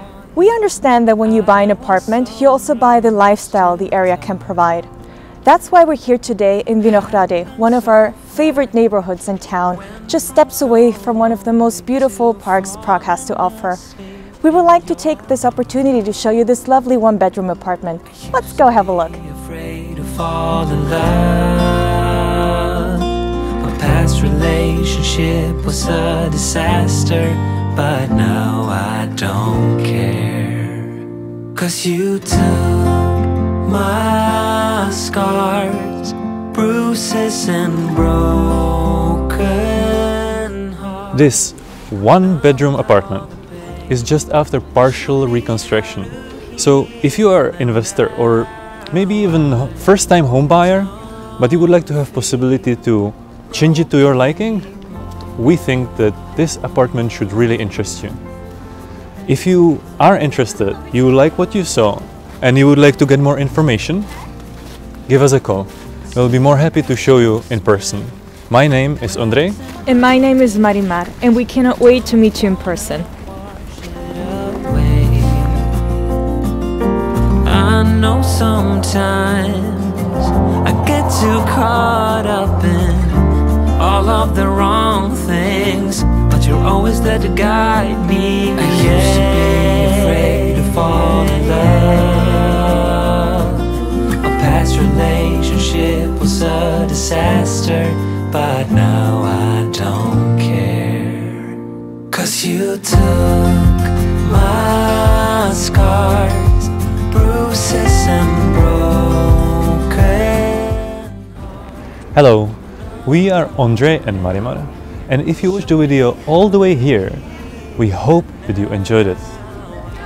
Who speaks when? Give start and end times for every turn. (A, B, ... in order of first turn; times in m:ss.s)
0:00.3-0:04.9 A
0:05.4-0:13.9 A
0:14.4-0:19.2 A
0:19.2-0:41.1 B
0:41.1-0:43.3 C
0:43.9-0:54.7 C
0:55.4-0:58.2 C
0:59.3-1:04.1 C
1:05.1-1:09.6 C
1:09.8-1:13.1 A
1:13.9-1:15.7 B
1:17.4-1:51.1 B
1:52.1-1:57.2 C
1:57.8-1:59.3 C